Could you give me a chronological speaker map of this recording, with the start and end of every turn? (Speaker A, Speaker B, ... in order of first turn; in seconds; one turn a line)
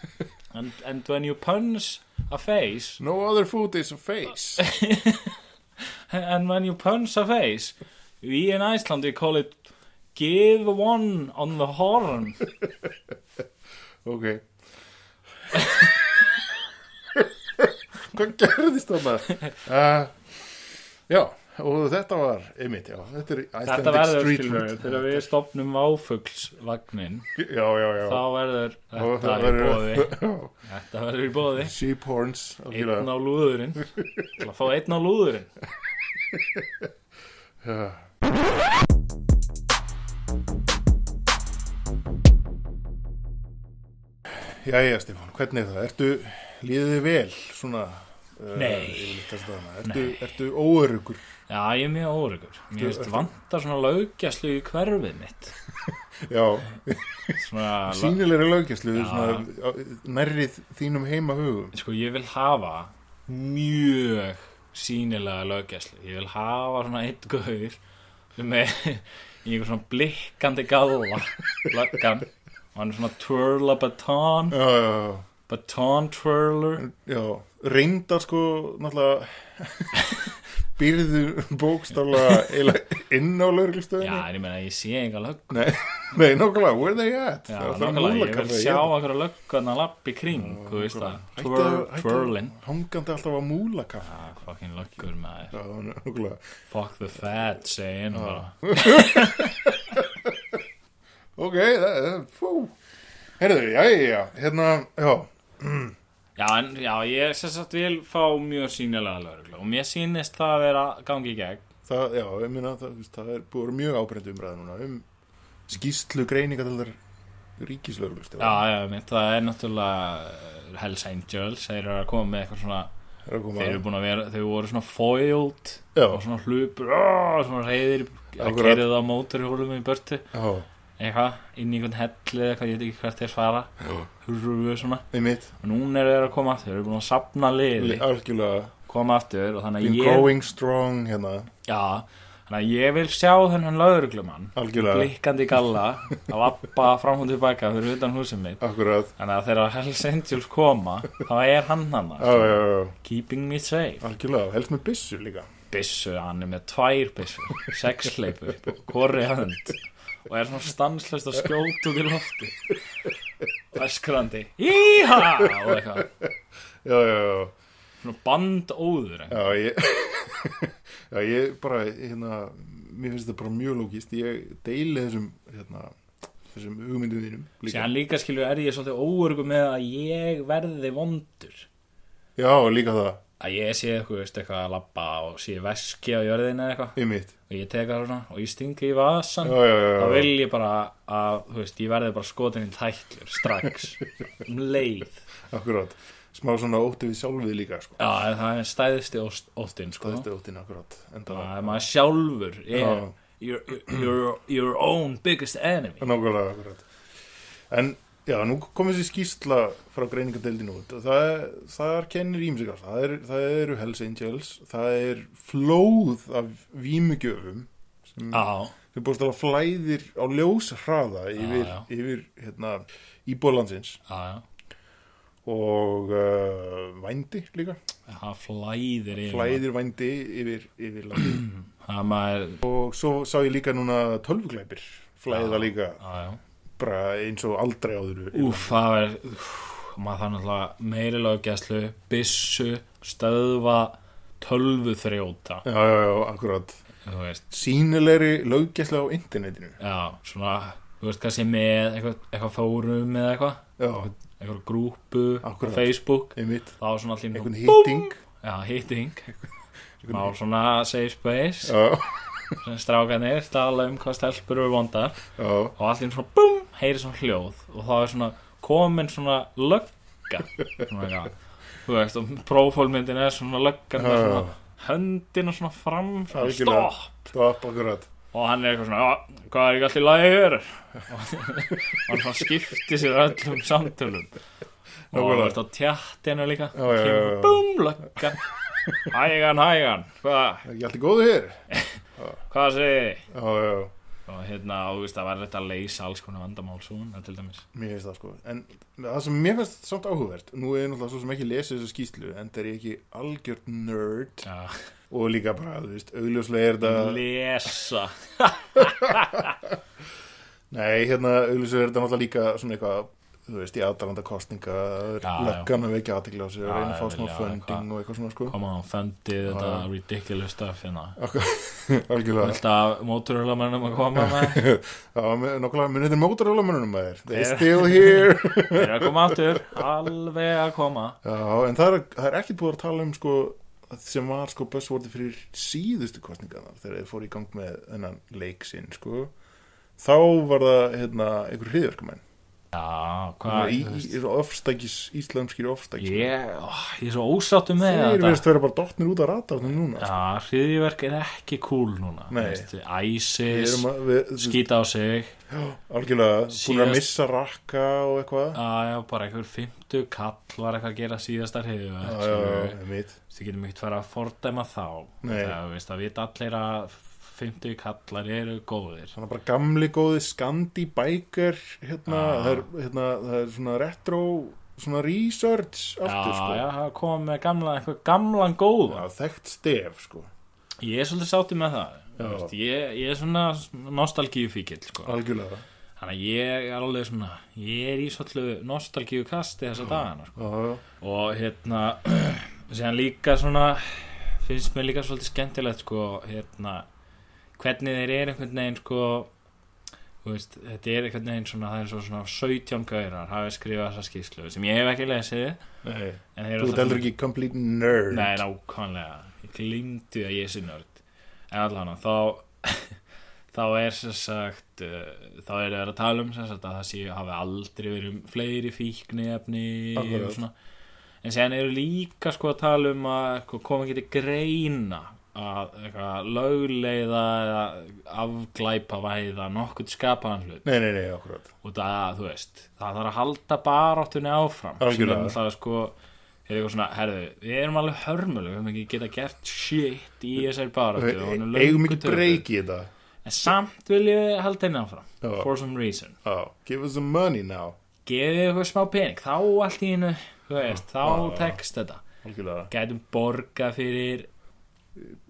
Speaker A: 0.5-3.0
Speaker B: 3.0-4.6
Speaker A: 4.6-5.4
Speaker A: 6.1-12.5
Speaker B: 14.0-14.5
Speaker B: 17.1-20.5
Speaker B: 21.1-25.3
Speaker A: 23.6-27.3
Speaker B: 27.4-28.2
Speaker A: 28.0-31.7
Speaker B: 28.9-30.5
Speaker B: 31.6-33.1
Speaker A: 32.7-35.5
Speaker B: 36.3-36.8
Speaker B: 37.6-38.1
Speaker B: 44.4-51.2
Speaker A: 48.5-49.3
Speaker A: 49.8-50.2
Speaker A: 51.5-55.5
Speaker B: 52.8-53.3
Speaker B: 56.2-61.7
Speaker A: 57.3-58.2
Speaker A: 58.9-59.5
Speaker A: 61.7-67.8
Speaker A: 68.3-74.6
Speaker B: 74.5-75.2
Speaker A: 75.5-76.8
Speaker B: 76.8-84.2
Speaker A: 84.0-85.6
Speaker B: 85.5-88.9
Speaker A: 87.5-92.5
Speaker B: 90.3-94.2
Speaker A: 94.0-95.5
Speaker B: 95.5-96.4
Speaker A: 96.7-99.5
Speaker B: 98.1-100.6
Speaker B: 101.4-102.7
Speaker B: 103.4-106.0
Speaker A: 106.4-111.6
Speaker B: 111.8-115.0
Speaker B: 115.7-117.0
Speaker B: 117.6-118.6
Speaker A: 118.4-122.9
Speaker B: 123.2-123.8
Speaker A: 123.5-130.3
Speaker B: 125.9-126.2
Speaker B: 128.4-128.9
Speaker B: 130.3-130.7
Speaker A: 131.0-135.1
Speaker B: 135.1-135.5
Speaker A: 135.6-138.0
Speaker B: 137.8-138.7
Speaker A: 138.9-140.3
Speaker B: 139.8-141.5
Speaker A: 141.7-148.6
Speaker B: 144.5-145.1
Speaker B: 148.6-149.1
Speaker A: 149.2-154.1
Speaker B: 152.2-152.9
Speaker B: 154.0-155.5
Speaker A: 155.7-162.8
Speaker A: 163.7-166.1
Speaker B: 165.4-166.3
Speaker B: 166.8-167.5
Speaker A: 168.0-169.5
Speaker B: 169.3-175.9
Speaker B: 176.5-177.9
Speaker A: 177.7-181.7
Speaker B: 182.4-183.2
Speaker A: 183.4-195.2
Speaker B: 186.9-187.3
Speaker B: 189.4-190.3
Speaker B: 195.5-198.0
Speaker A: 198.0-200.2
Speaker B: 200.0-201.8
Speaker A: 201.3-206.1
Speaker B: 202.7-203.1
Speaker B: 206.0-206.9
Speaker B: 207.7-224.0
Speaker A: 218.3-218.7
Speaker A: 221.3-221.9
Speaker A: 224.1-224.4
Speaker B: 225.4-227.8
Speaker A: 228.1-229.6
Speaker B: 229.2-231.4
Speaker A: 231.3-232.6
Speaker B: 232.6-236.0
Speaker A: 235.3-236.4
Speaker B: 236.8-238.7
Speaker A: 238.3-245.6
Speaker B: 245.6-246.7
Speaker A: 247.0-247.4
Speaker B: 247.5-249.8
Speaker A: 249.8-259.4
Speaker B: 253.8-254.1
Speaker B: 255.4-256.7
Speaker B: 257.3-258.2
Speaker B: 260.0-260.3
Speaker A: 260.1-261.8
Speaker B: 261.6-262.6
Speaker A: 262.6-277.3
Speaker B: 265.4-265.7
Speaker B: 274.0-274.5
Speaker B: 276.3-278.1
Speaker A: 278.3-284.4
Speaker B: 285.1-285.6
Speaker A: 285.1-290.7
Speaker B: 286.7-287.6
Speaker B: 290.6-291.6
Speaker A: 291.7-292.0
Speaker A: 292.5-293.2
Speaker B: 293.3-293.9
Speaker A: 294.3-297.6
Speaker B: 297.7-304.4
Speaker A: 304.4-304.8
Speaker B: 305.1-307.2
Speaker A: 306.8-309.5
Speaker B: 308.8-309.1
Speaker B: 310.7-318.5
Speaker A: 315.2-315.7
Speaker A: 316.6-317.9
Speaker A: 318.5-321.2
Speaker B: 319.4-319.9
Speaker B: 321.2-322.6
Speaker A: 322.4-324.6
Speaker B: 324.1-329.8
Speaker A: 327.3-331.2
Speaker B: 331.2-339.3
Speaker B: 340.0-342.2
Speaker A: 342.7-344.1
Speaker B: 343.4-346.3
Speaker A: 346.0-348.4
Speaker B: 347.8-350.2
Speaker A: 350.0-355.4
Speaker B: 352.3-352.7
Speaker B: 353.5-354.6
Speaker B: 355.5-358.6
Speaker A: 356.5-357.1
Speaker A: 358.5-369.1
Speaker B: 362.0-363.1
Speaker B: 365.2-365.6
Speaker B: 369.1-376.6
Speaker A: 372.1-372.7
Speaker A: 376.0-379.1
Speaker B: 378.9-380.3
Speaker A: 380.8-385.2
Speaker B: 382.2-382.5
Speaker B: 385.0-385.6
Speaker A: 386.0-390.4
Speaker B: 390.4-390.8
Speaker A: 391.0-396.9
Speaker A: 397.6-399.3
Speaker A: 400.2-405.6
Speaker B: 405.8-408.4
Speaker A: 406.3-407.1
Speaker A: 408.1-413.0
Speaker A: 413.5-420.5
Speaker B: 419.9-420.4
Speaker A: 421.2-430.6
Speaker B: 430.6-431.5
Speaker A: 431.6-435.9
Speaker B: 434.8-435.4
Speaker A: 436.4-442.4
Speaker B: 440.9-442.9
Speaker A: 443.2-446.1
Speaker B: 445.2-445.5
Speaker B: 446.2-447.8
Speaker A: 448.0-452.0
Speaker B: 450.7-451.6
Speaker B: 452.2-452.7
Speaker A: 452.7-454.3